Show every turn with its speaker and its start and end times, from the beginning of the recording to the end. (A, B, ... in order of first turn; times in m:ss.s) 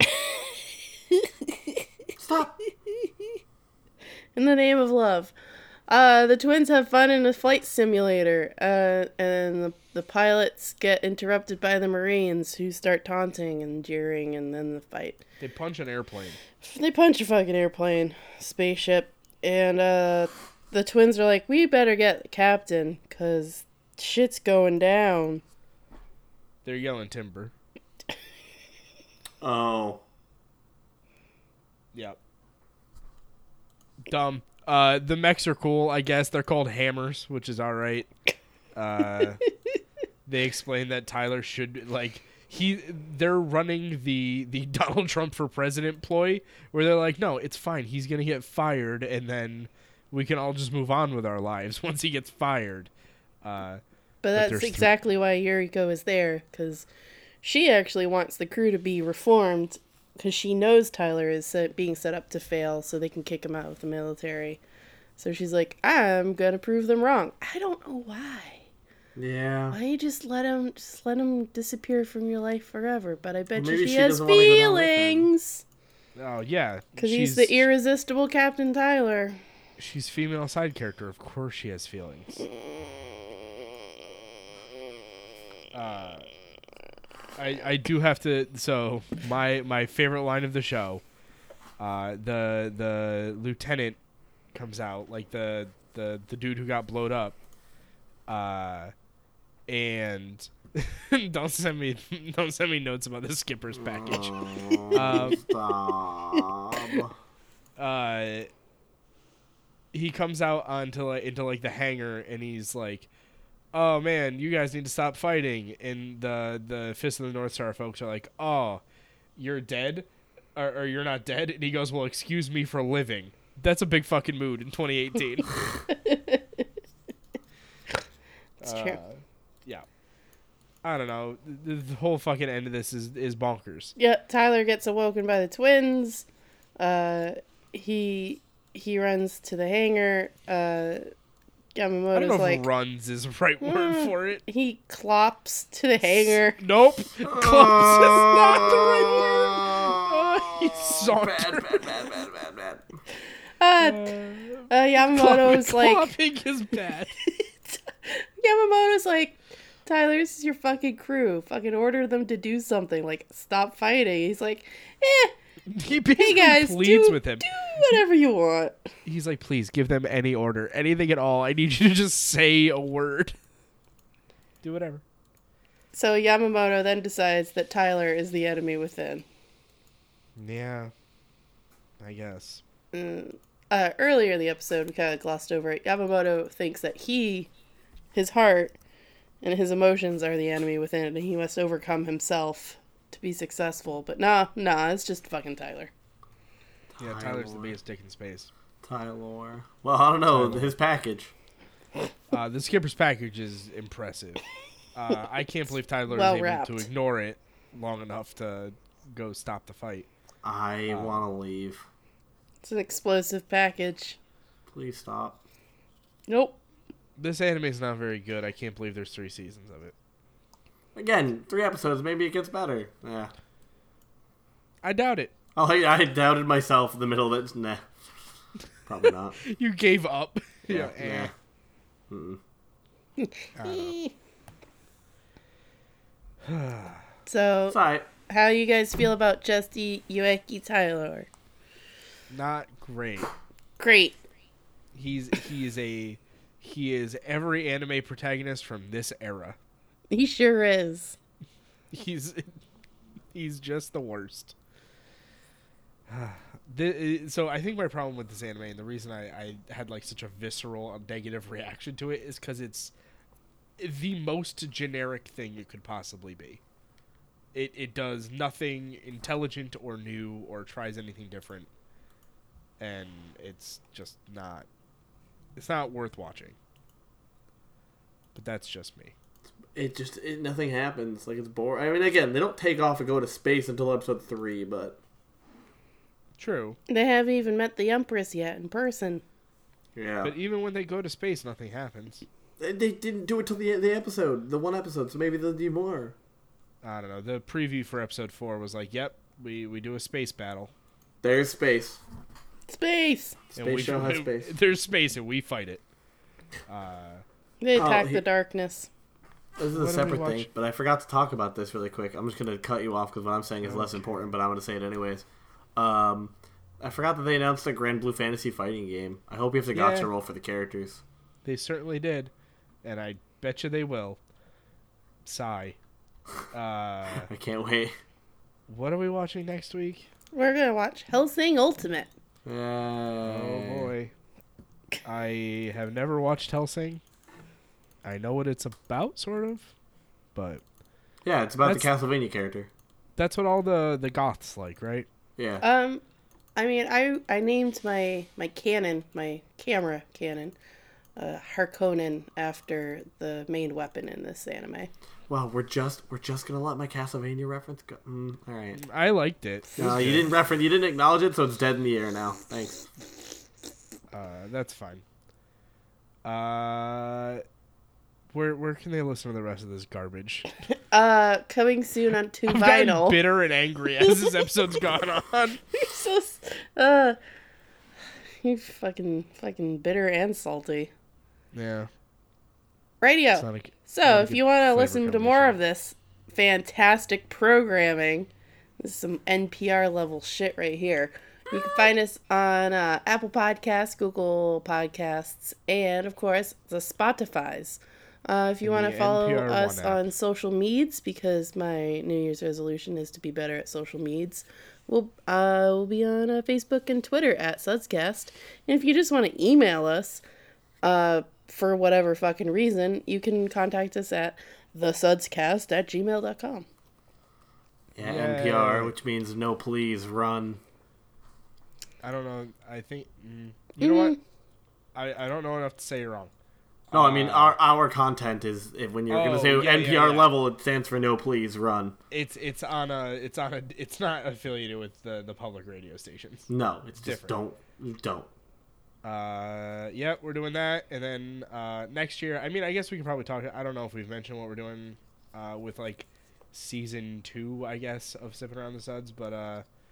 0:02.2-0:02.6 A
0:04.4-0:05.3 B
0:05.9-0:15.2 B
0:15.4-0:16.4 C
0:16.6-0:25.4 B
0:26.6-0:27.5 C
0:29.4-0:30.0 A
0:34.1-0:38.1 C
0:38.8-0:39.4 C
0:40.3-0:52.9 C
0:53.4-0:53.8 C
0:54.2-0:56.9 B
0:54.4-0:54.9 C
0:57.4-1:04.6 B
1:05.2-1:08.6 B
1:09.2-1:09.8 A
1:09.7-1:15.6 B
1:13.5-1:15.3 A
1:16.2-1:17.7 C
1:17.0-1:19.4 B
1:19.8-1:22.4 C
1:22.8-1:23.1 B
1:25.7-1:26.3 C
1:27.4-1:31.0 C
1:31.8-1:34.0 C
1:34.5-1:37.4 C
1:38.3-1:38.9 C
1:39.7-1:44.4 C
1:43.8-1:47.1 A
1:44.9-1:45.4 C
1:47.8-1:48.5 C
1:49.9-1:53.1 C
1:53.7-1:58.8 C
1:59.4-2:05.6 C
2:05.9-2:06.6 B
2:08.6-2:09.8 C
2:08.6-2:09.0 B
2:10.8-2:13.9 C
2:14.0-2:16.2 B
2:16.8-2:21.0 B
2:21.8-2:22.6 B
2:22.1-2:24.4 C
2:23.6-2:26.6 B
2:26.6-2:31.9 C
2:27.2-2:32.9 A
2:33.6-2:34.1 B
2:33.8-2:37.1 C
2:34.7-2:36.1 B
2:37.2-2:45.3 B
2:45.7-2:48.0 C
2:46.2-2:48.9 B
2:49.0-2:53.4 C
2:54.6-2:55.0 C
2:55.9-2:59.2 B
3:00.4-3:00.9 C
3:02.0-3:02.6 C
3:02.9-3:07.5 B
3:08.1-3:08.8 B
3:09.4-3:15.9 B
3:17.0-3:17.8 A
3:17.0-3:18.5 C
3:18.8-3:21.3 A
3:20.3-3:20.7 C
3:22.3-3:24.4 C
3:25.0-3:30.1 C
3:26.1-3:26.9 B
3:30.4-3:31.8 A
3:30.9-3:31.2 C
3:32.6-3:34.2 B
3:34.7-3:35.4 A
3:36.3-3:36.6 B
3:37.2-3:39.9 C
3:41.0-3:43.3 A
3:44.8-3:45.3 C
3:45.6-3:47.8 A
3:48.9-3:49.4 A
3:49.4-3:51.3 C
3:50.7-3:51.3 A
3:52.1-3:52.4 A
3:53.2-3:54.1 B
3:53.6-3:54.0 C
3:56.4-3:57.0 C
3:57.3-3:57.8 B
3:57.7-3:58.1 A
3:58.3-4:01.3 B
4:02.3-4:03.3 C
4:03.8-4:04.2 B
4:05.0-4:09.6 C
4:10.1-4:11.2 B
4:11.9-4:12.6 C
4:13.3-4:14.5 C
4:16.1-4:22.9 C
4:23.8-4:26.6 C
4:27.5-4:31.7 C
4:32.8-4:34.7 C
4:35.6-4:36.6 C
4:38.4-4:39.1 C
4:39.7-4:45.0 A
4:46.4-4:46.8 C
4:46.9-4:49.2 B
4:50.0-4:50.3 A
4:50.2-4:52.2 C
4:52.6-4:56.2 A
4:56.8-5:00.7 C
5:01.2-5:02.0 A
5:02.7-5:03.4 B
5:03.6-5:05.8 C
5:03.6-5:04.5 A
5:06.7-5:07.2 C
5:07.6-5:08.9 B
5:07.8-5:08.2 A
5:09.6-5:21.0 A
5:09.7-5:10.5 C
5:13.6-5:14.0 C
5:19.7-5:20.1 C
5:21.4-5:22.3 C
5:22.8-5:24.2 C
5:25.2-5:25.8 C
5:26.5-5:27.3 C
5:27.3-5:27.9 A
5:28.7-5:30.1 C
5:30.3-5:32.1 B
5:32.4-5:33.9 A
5:33.2-5:34.1 C
5:35.0-5:37.0 C
5:38.0-5:39.7 C
5:40.4-5:40.6 C
5:41.2-5:42.7 A
5:41.6-5:41.9 C
5:43.2-5:45.1 C
5:45.4-5:45.6 A
5:45.6-5:46.0 B
5:46.6-5:50.6 B
5:51.2-5:54.9 B
5:55.3-5:58.8 A
5:58.7-6:00.3 C
5:59.8-6:02.9 A
6:04.1-6:05.0 C
6:06.2-6:07.4 C
6:08.3-6:10.5 C
6:10.9-6:13.2 B
6:12.5-6:15.6 C
6:14.1-6:14.3 B
6:15.8-6:17.2 B
6:18.4-6:20.9 B
6:21.5-6:21.9 C
6:23.0-6:28.3 B
6:23.4-6:25.6 C
6:28.8-6:50.2 B
6:38.6-6:40.0 C
6:50.8-6:56.6 B
6:58.0-7:00.6 A
6:58.0-6:59.0 C
7:02.0-7:04.2 C
7:03.8-7:04.2 B
7:05.0-7:06.3 C
7:06.9-7:07.6 C
7:06.9-7:12.0 A
7:09.1-7:10.3 C
7:12.1-7:16.5 C
7:16.5-7:18.3 A
7:17.0-7:17.4 C
7:19.0-7:29.6 C